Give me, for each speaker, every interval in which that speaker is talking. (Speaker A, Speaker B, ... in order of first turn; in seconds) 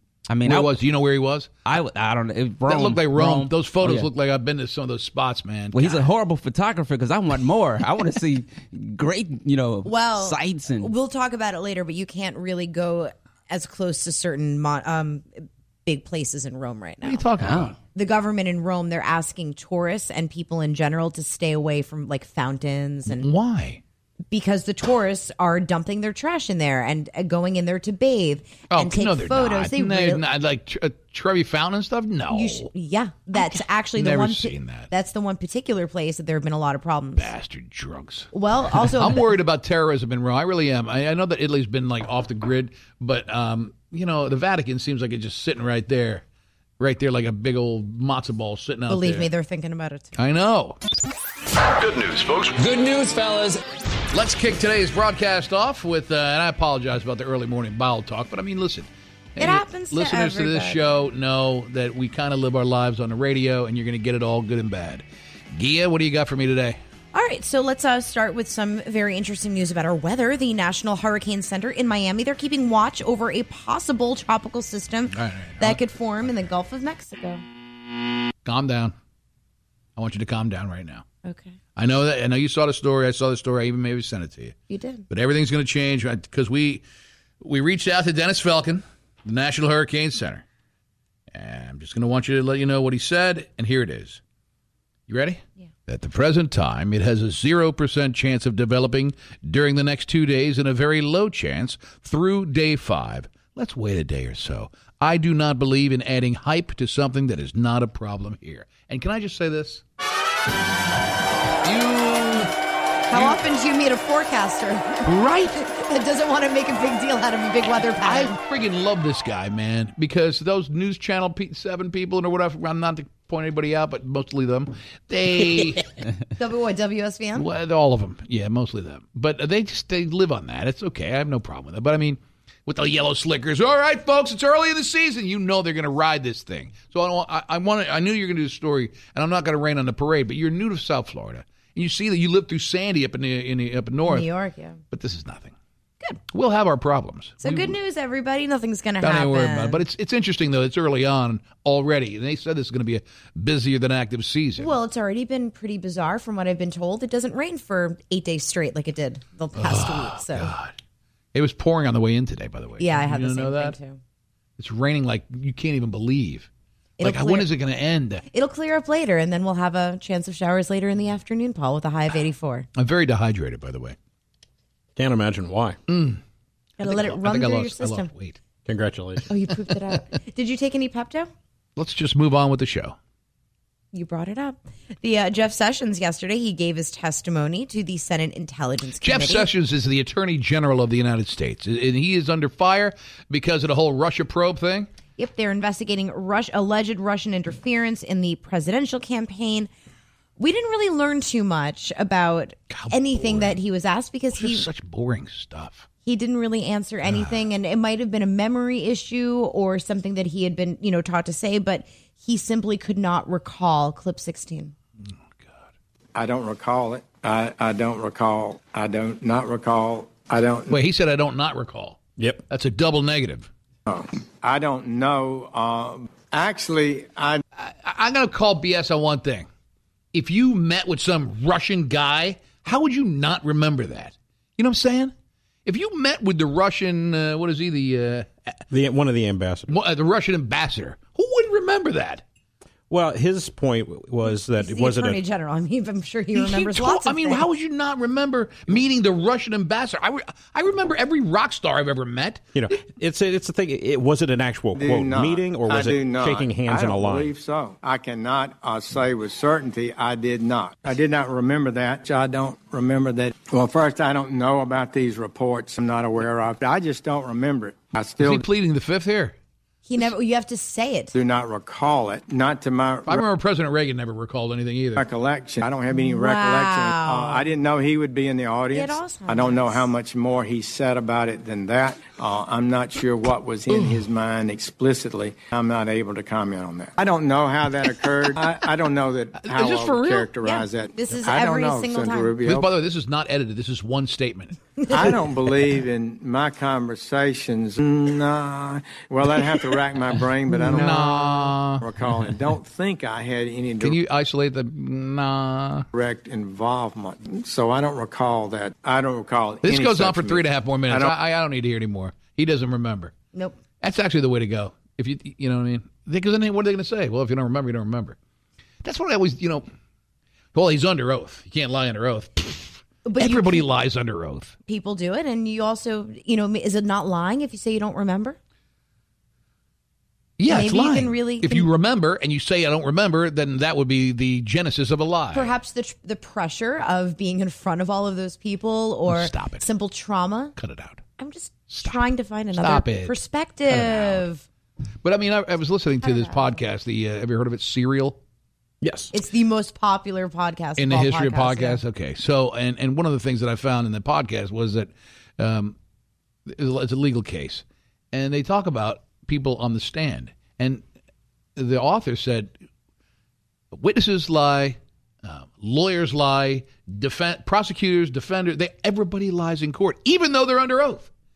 Speaker A: 0.3-0.8, 1.6-4.1, 5.7-10.9, 17.4-17.7
Speaker B: 0.4-1.5, 2.6-6.0, 17.0-17.7, 23.1-23.8, 28.7-32.7, 33.3-34.9, 37.1-46.2, 46.8-49.3, 50.1-50.8, 51.8-52.5, 54.1-66.8, 75.1-75.8, 78.4-78.9, 80.0-81.0, 81.8-84.5, 85.1-86.8, 87.4-90.4, 91.3-94.2, 95.1-109.8, 111.6-112.5, 113.1-113.4, 115.0-115.6, 118.0-125.8, 127.3-144.3, 144.9-145.5, 146.3-147.8, 149.0-154.7, 159.6-160.7, 161.3-163.8, 164.6-166.5, 167.0-168.2, 172.8-173.9, 175.9-176.2, 176.8-178.4, 181.8-182.9, 189.0-194.9, 202.7-203.6, 204.3-205.9, 207.0-207.4, 215.4-215.6, 220.7-223.5, 227.6-229.5, 230.1-235.1, 235.6-238.5, 239.7-242.2, 246.3-252.5, 268.2-269.4, 273.1-275.0, 283.7-284.0, 289.4-290.3, 292.4-294.5, 300.6-301.8, 303.8-305.9, 309.6-313.1, 313.8-318.2, 318.8-319.7, 320.5-324.5, 330.4-335.5, 339.1-339.6, 340.6-341.0, 341.7-342.0, 342.5-343.2, 343.7-344.2, 345.0-348.2, 350.8-355.7, 356.5-360.8, 361.6-362.5, 363.7-371.1
Speaker C: 9.8-17.2, 17.9-23.3, 24.3-30.2, 32.3-37.3, 38.3-39.3, 48.9-50.1, 59.4-60.8, 67.1-77.4, 81.2-81.5, 84.7-85.0, 113.1-118.4, 126.4-127.5, 144.1-144.8, 147.4-149.8, 154.6-160.5, 162.8-164.0, 167.0-167.5, 168.3-172.7, 176.8-178.1, 179.3-181.3, 183.9-189.5, 195.2-199.7, 200.4-204.7, 206.0-214.7, 244.6-247.5, 269.9-271.1, 275.9-277.4, 278.7-279.8, 290.4-292.3, 323.0-323.6, 324.7-328.4, 330.5-331.7, 335.3-340.5, 341.2-344.4, 346.0-346.6, 349.1-351.8
Speaker D: 174.9-175.8, 178.6-179.2, 238.7-239.7, 242.9-245.2, 252.5-257.3, 348.8-349.1
Speaker E: 216.1-220.8, 223.9-227.4, 254.8-268.4, 271.1-273.2, 274.9-292.7, 294.9-304.0, 305.9-311.1